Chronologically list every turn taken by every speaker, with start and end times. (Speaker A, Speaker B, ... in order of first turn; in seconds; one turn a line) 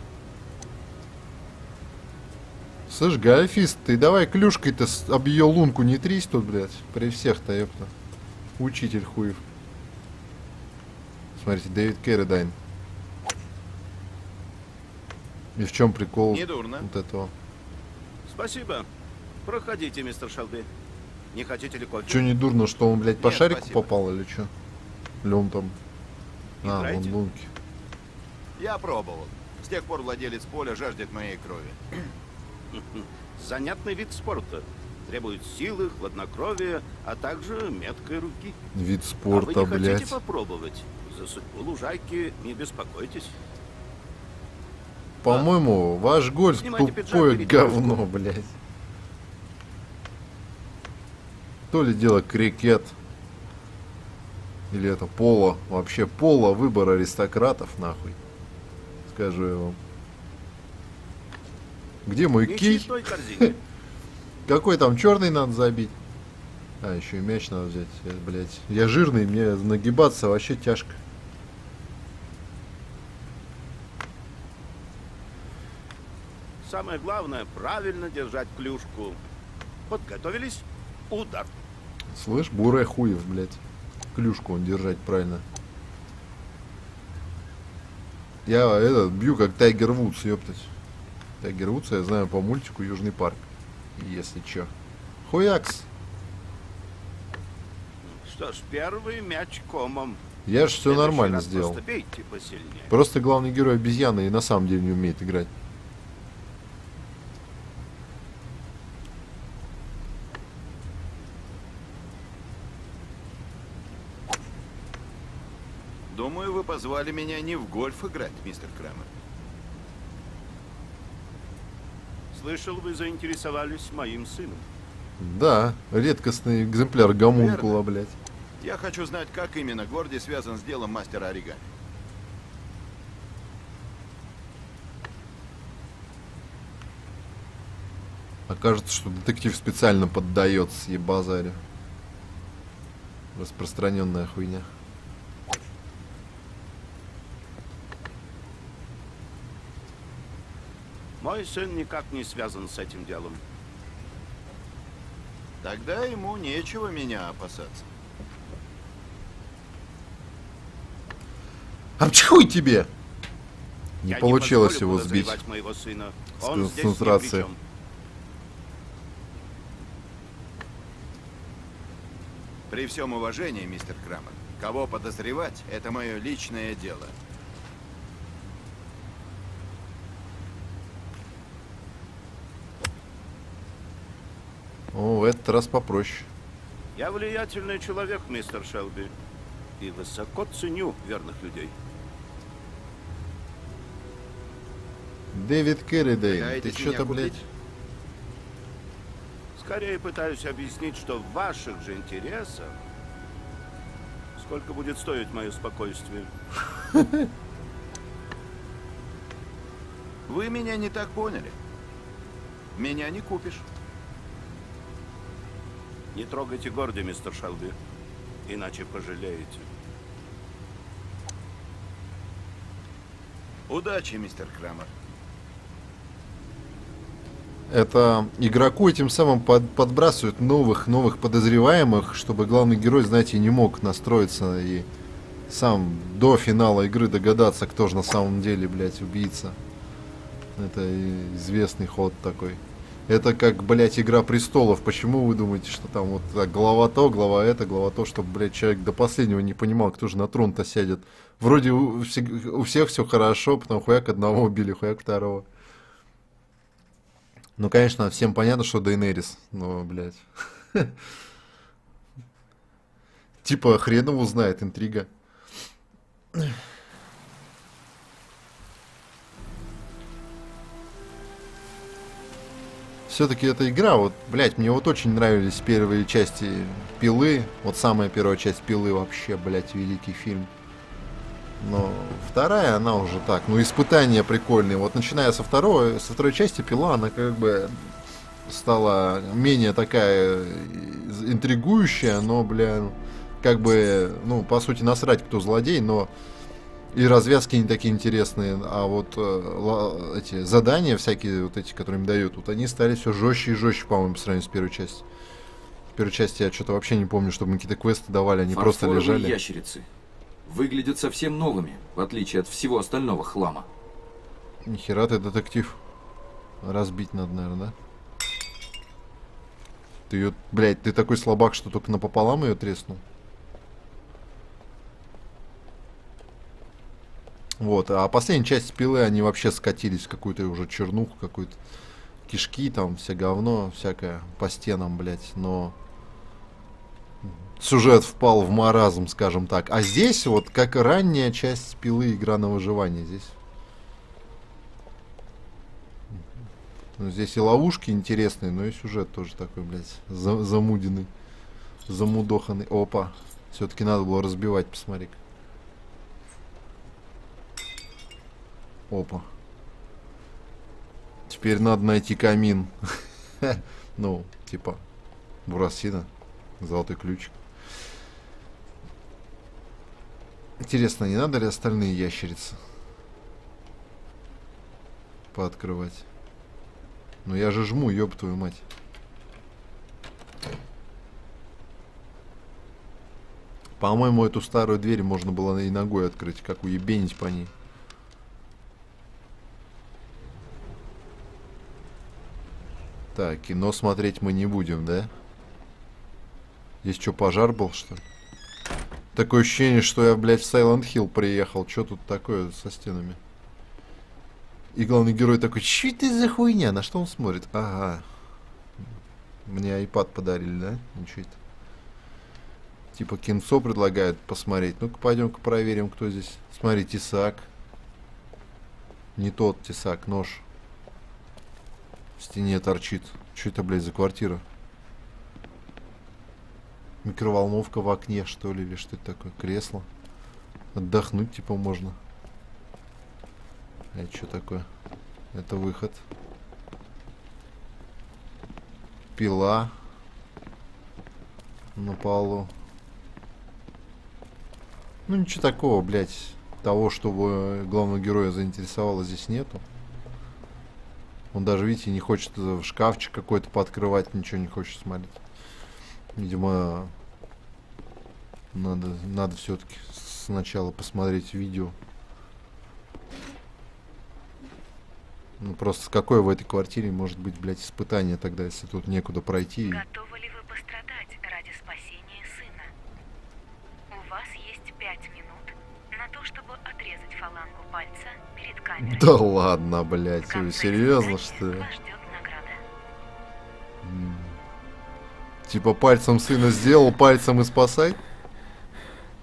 Speaker A: 2.9-7.9
Speaker A: 8.6-9.4
Speaker A: 11.3-12.6
Speaker A: 15.6-17.3
Speaker B: 16.3-16.9
Speaker C: 18.3-18.9
Speaker C: 19.4-20.7
Speaker C: 21.3-22.3
Speaker A: 22.1-24.5
Speaker B: 23.2-23.8
Speaker A: 25.2-25.8
Speaker A: 26.6-27.5
Speaker C: 26.6-27.1
Speaker B: 28.6-31.8
Speaker C: 32.7-38.6
Speaker A: 38.7-40.2
Speaker C: 39.3-43.4
Speaker A: 45.2-48.5
Speaker C: 46.6-48.0
Speaker A: 51.7-53.0
Speaker A: 54.7-58.2
Speaker A: 59.1-59.8
Speaker A: 62.1-63.6
Speaker C: 62.5-63.5
Speaker A: 64.5-66.0
Speaker A: 66.8-71.0
Speaker C: 76.6-79.2
Speaker C: 79.9-81.5
Speaker A: 82.1-83.6
Speaker A: 84.1-85.5
Speaker A: 88.5-90.7
Speaker A: 91.4-94.7
Speaker A: 95.2-95.9
Speaker C: 98.0-100.2
Speaker A: 100.5-101.8
Speaker C: 100.9-102.9
Speaker A: 102.9-105.5
Speaker B: 116.1-119.1
Speaker C: 122.3-124.7
Speaker A: 125.2-128.2
Speaker B: 127.4-127.7
Speaker B: 128.6-131.7
Speaker A: 138.5-141.6
Speaker A: 143.3-144.7
Speaker C: 151.2-153.4
Speaker B: 155.6-157.9
Speaker A: 162.0-162.9
Speaker A: 164.0-165.4
Speaker C: 164.1-167.6
Speaker A: 166.4-167.5
Speaker B: 172.7-177.1
Speaker A: 184.9-186.3
Speaker C: 187.0-189.1
Speaker C: 189.8-191.8
Speaker A: 195.3-197.4
Speaker B: 196.3-197.4
Speaker C: 199.6-202.8
Speaker C: 204.4-206.3
Speaker A: 206.9-207.3
Speaker B: 210.3-211.6
Speaker B: 212.8-213.7
Speaker C: 216.1-217.8
Speaker C: 218.5-219.7
Speaker B: 223.7-224.9
Speaker A: 227.7-234.9
Speaker A: 235.5-239.6
Speaker A: 240.6-255.5
Speaker A: 257.6-261.0
Speaker A: 263.4-265.1
Speaker A: 273.1-280.5
Speaker A: 281.6-287.9
Speaker A: 288.5-296.1
Speaker A: 296.9-305.0
Speaker A: 305.9-309.4
Speaker D: 308.5-309.9
Speaker D: 310.4-313.7
Speaker A: 314.6-315.8
Speaker A: 316.6-317.8
Speaker A: 320.1-323.0
Speaker A: 327.6-331.6
Speaker A: 332.3-335.8
Speaker A: 337.2-343.4
Speaker A: 347.0-351.1
Speaker A: 351.9-355.2
Speaker A: 358.9-359.3
Speaker A: 361.3-364.8
Speaker A: 365.5-366.1
Speaker A: 366.6-367.4
Speaker A: 370.6-372.6
Speaker A: 375.3-376.1
Speaker A: 377.2-378.6
Speaker A: 383.8-387.5
Speaker A: 393.1-395.1
Speaker A: 396.8-398.0
Speaker A: 399.1-403.2
Speaker A: 404.7-408.1
Speaker A: 409.5-411.4
Speaker A: 412.9-417.5
Speaker A: 419.2-420.4
Speaker A: 422.2-424.4
Speaker A: 427.0-429.9
Speaker A: 430.7-432.0
Speaker A: 433.9-434.7
Speaker A: 435.3-436.0
Speaker A: 439.2-439.8
Speaker A: 441.8-442.5
Speaker A: 445.1-449.6
Speaker A: 451.3-455.2
Speaker A: 456.1-456.9
Speaker A: 458.5-461.8
Speaker A: 465.4-469.8
Speaker E: 469.7-472.7
Speaker E: 473.9-479.2
Speaker A: 478.8-481.7
Speaker E: 480.2-482.6
Speaker A: 483.8-484.4
Speaker A: 485.4-488.0